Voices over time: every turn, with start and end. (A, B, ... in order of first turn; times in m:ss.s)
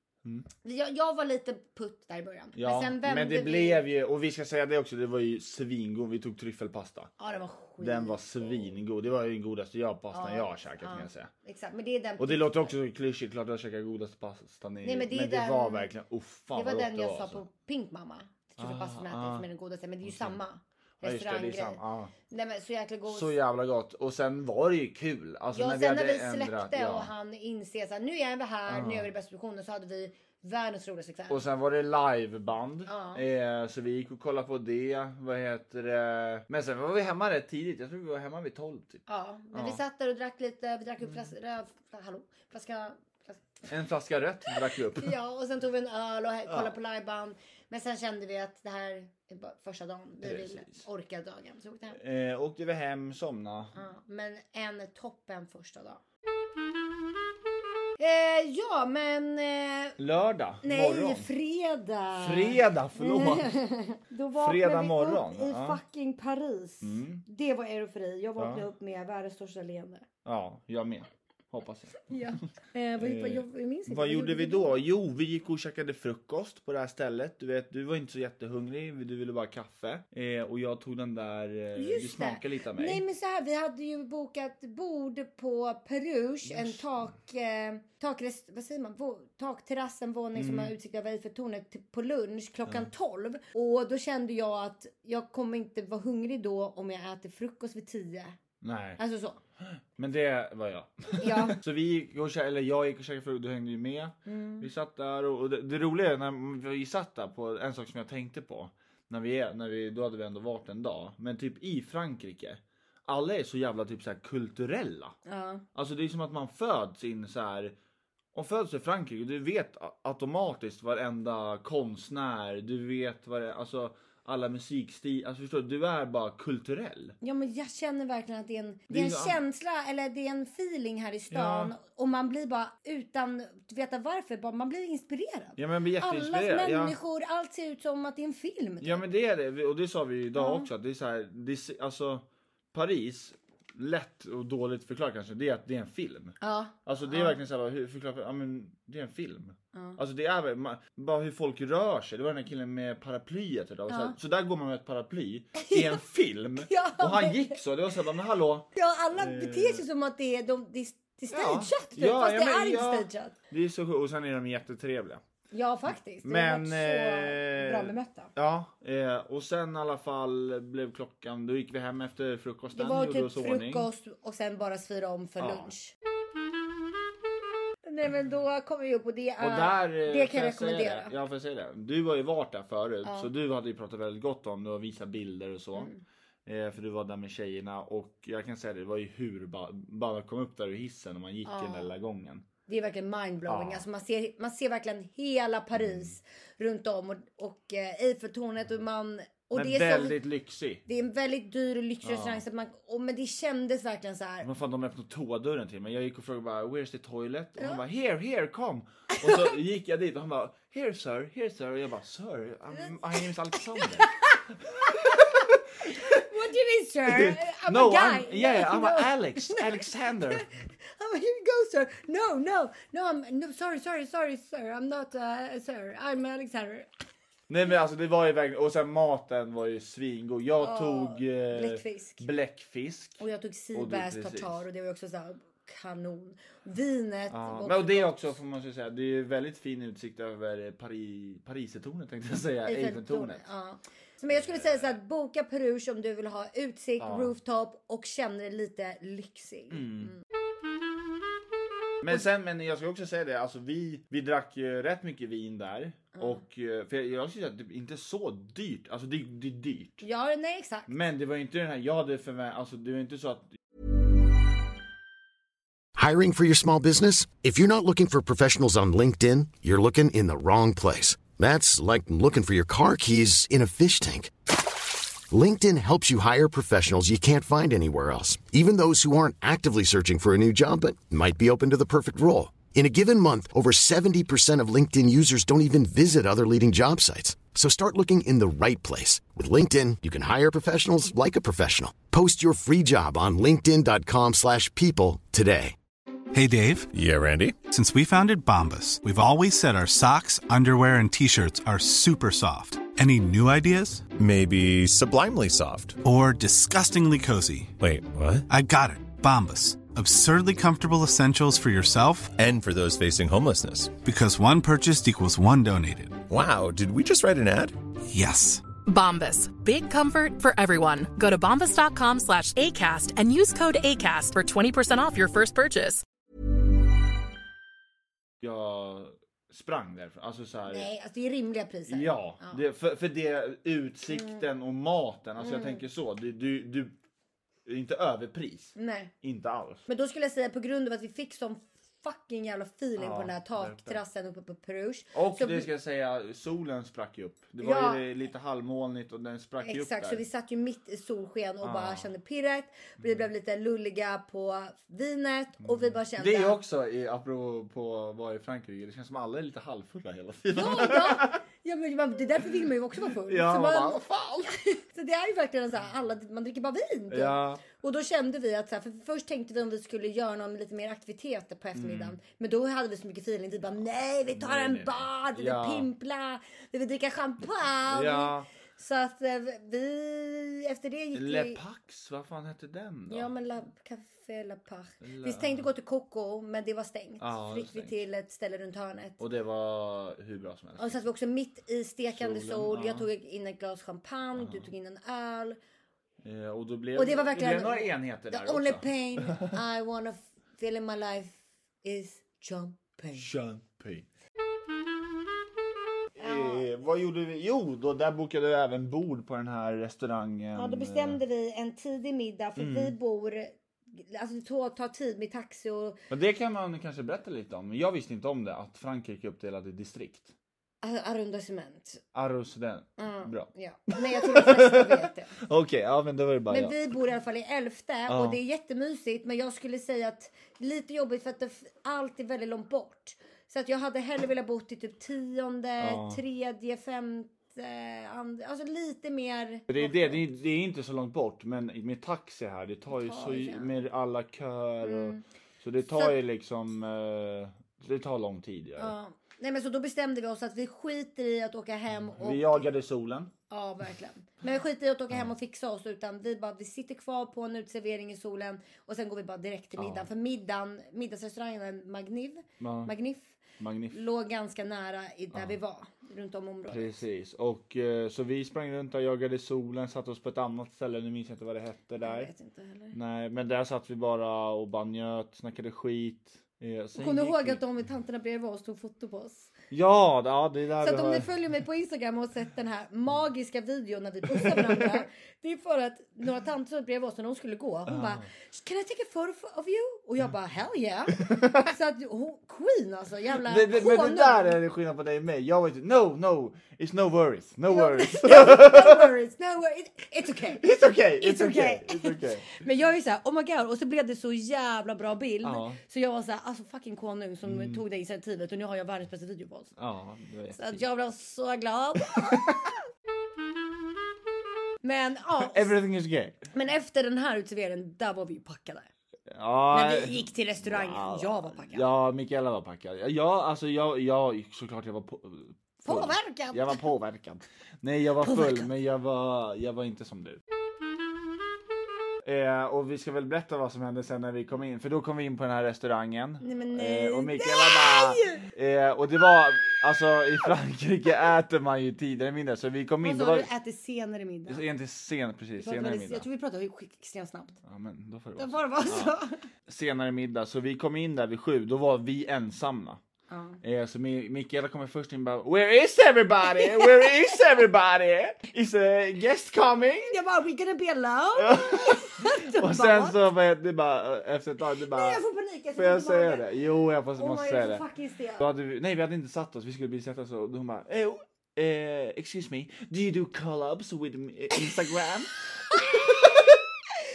0:00.6-0:03.8 A
0:02.6-0:07.1 B
0:07.2-0:08.7 A
0:07.8-0:11.3 B
0:10.1-0:12.7 A
0:12.2-0:17.4 B
0:14.8-0:15.9 A
0:16.5-0:23.3 A
0:18.6-0:19.4 B
0:20.0-0:20.4 B
0:21.0-0:22.1 B
0:23.1-0:27.1 B
0:25.5-0:31.4 A
0:28.7-0:29.1 B
0:31.3-0:39.8 B
0:32.9-0:33.2 A
0:39.1-0:43.4 A
0:43.7-0:45.1 B
0:45.0-0:52.0 A
0:50.2-0:50.8 B
0:52.0-0:53.7 B
0:53.7-0:56.0 A
0:58.0-1:00.0 A
1:00.0-1:01.3 B
1:00.6-1:10.0 A
1:02.2-1:03.5 B
1:04.4-1:05.8 B
1:06.8-1:07.2 B
1:08.4-1:08.6 B
1:10.2-1:12.1 B
1:12.1-1:14.8 A
1:13.0-1:23.0 B
1:21.8-1:38.4 A
1:26.4-1:26.8 B
1:30.3-1:30.7 B
1:38.6-1:39.0 B
1:39.0-1:39.4 A
1:40.0-1:55.2 B
1:41.2-1:41.6 A
1:44.2-1:44.7 A
1:55.2-1:55.6 A
1:55.7-1:57.7 B
1:58.3-2:07.2 B
2:07.2-2:19.0 A
2:08.9-2:09.4 B
2:11.3-2:11.7 B
2:15.6-2:17.0 B
2:18.8-2:39.8 B
2:20.4-2:20.7 A
2:26.4-2:27.4 A
2:33.9-2:34.2 A
2:35.6-2:36.0 A
2:36.6-2:37.6 A
2:38.7-2:43.3 A
2:41.3-2:45.2 B
2:45.5-2:48.3 A
2:46.2-2:53.9 B
2:52.7-2:55.9 A
2:55.4-2:55.7 B
2:57.8-3:01.1 A
2:59.4-3:05.9 B
3:05.7-3:06.0 A
3:06.4-3:12.4 B
3:11.4-3:11.9 A
3:12.7-3:20.2 A
3:13.5-3:13.8 B
3:15.8-3:16.1 B
3:19.5-3:20.8 B
3:20.8-3:24.5 A
3:22.0-3:22.4 B
3:24.4-3:34.1 B
3:27.6-3:27.8 A
3:29.1-3:29.5 A
3:32.8-3:46.9 A
3:34.8-3:36.1 B
3:37.1-3:40.4 B
3:47.5-3:53.2 B
3:50.6-3:52.3 A
3:53.2-3:58.1 A
3:53.7-3:54.6 B
3:57.3-4:03.4 B
4:02.6-4:10.2 A
4:04.3-4:04.9 B
4:07.0-4:07.3 B
4:09.7-4:10.1 B
4:12.0-4:20.0 B
4:20.0-4:20.9 A
4:20.9-4:23.5 B
4:26.0-4:34.3 C
4:35.3-4:55.7 C
4:56.3-4:56.9 D
4:56.9-4:57.6 E
4:57.6-5:04.1 D
5:04.2-5:06.0 E
5:06.0-5:07.7 D
5:07.8-5:08.4 E
5:08.5-5:12.3 D
5:12.4-5:14.0 E
5:14.0-5:16.2 D
5:16.3-5:17.8 E
5:18.1-5:18.6 D
5:18.8-5:26.0 F
5:28.4-5:30.9 B
5:30.7-5:32.6 A
5:31.9-5:36.9 B
5:34.1-5:34.4 A
5:35.4-5:35.8 A
5:37.6-5:39.8 B
5:38.8-5:39.1 A
5:39.9-5:45.7 A
5:43.0-5:44.0 B
5:45.1-5:50.2 B
5:47.6-5:48.0 A
5:49.6-5:56.6 A
5:51.6-5:52.1 B
5:53.0-5:53.3 B
5:55.6-6:01.4 B
6:00.5-6:21.6 A
6:03.2-6:04.5 B
6:07.1-6:07.6 B
6:11.7-6:12.2 B
6:14.3-6:15.9 B
6:17.9-6:18.5 B
6:21.1-6:23.3 B
6:23.1-6:29.2 A
6:25.0-6:25.7 B
6:27.2-6:28.0 B
6:29.2-6:31.0 B
6:30.8-6:35.6 A
6:32.1-6:33.1 B
6:34.4-6:34.7 B
6:36.2-6:39.5 B
6:37.0-6:43.3 A
6:43.2-6:44.0 B
6:46.2-6:51.2 B
6:46.2-6:46.7 A
6:50.5-6:56.0 A
6:52.6-6:52.9 B
6:56.1-7:00.3 B
7:00.8-7:02.0 A
7:02.1-7:06.8 B
7:03.0-7:05.3 A
7:06.5-7:20.2 A
7:08.1-7:08.4 B
7:15.8-7:16.2 B
7:19.7-7:28.9 B
7:22.9-7:23.7 A
7:24.8-7:25.2 A
7:28.8-7:32.6 A
7:32.0-7:33.3 B
7:33.5-7:43.4 A
7:39.8-7:40.1 B
7:42.6-7:42.9 B
7:43.6-7:44.0 B
7:43.9-7:47.0 A
7:46.7-7:52.3 B
7:52.0-7:53.0 A
7:52.9-7:57.6 B
7:57.0-7:59.5 A
7:59.7-8:01.3 B
8:00.8-8:14.6 A
8:04.4-8:05.0 B
8:07.9-8:08.3 B
8:11.2-8:11.6 B
8:13.4-8:19.1 B
8:17.7-8:20.6 A
8:20.6-8:22.6 B
8:21.2-8:29.7 A
8:25.4-8:25.8 B
8:27.4-8:27.8 B
8:29.8-8:30.8 B
8:30.5-8:32.7 A
8:32.2-8:32.5 B
8:34.8-8:35.7 A
8:35.4-8:36.4 B
8:36.5-8:38.9 A
8:39.3-8:50.4 B
8:39.7-8:41.9 A
8:45.8-8:46.8 A
8:48.2-8:48.7 A
8:52.2-9:03.5 B
8:56.4-8:58.4 A
9:03.0-9:04.6 A
9:04.5-9:06.2 B
9:05.6-9:07.6 A
9:07.6-9:09.1 B
9:08.4-9:09.4 A
9:09.6-9:13.0 B
9:13.3-9:13.6 A
9:13.6-9:20.1 B
9:16.5-9:17.3 A
9:20.0-9:23.2 A
9:21.4-9:25.2 B
9:24.8-9:26.4 A
9:25.7-9:27.8 B
9:27.2-9:28.4 A
9:28.4-9:36.6 B
9:35.7-9:36.6 A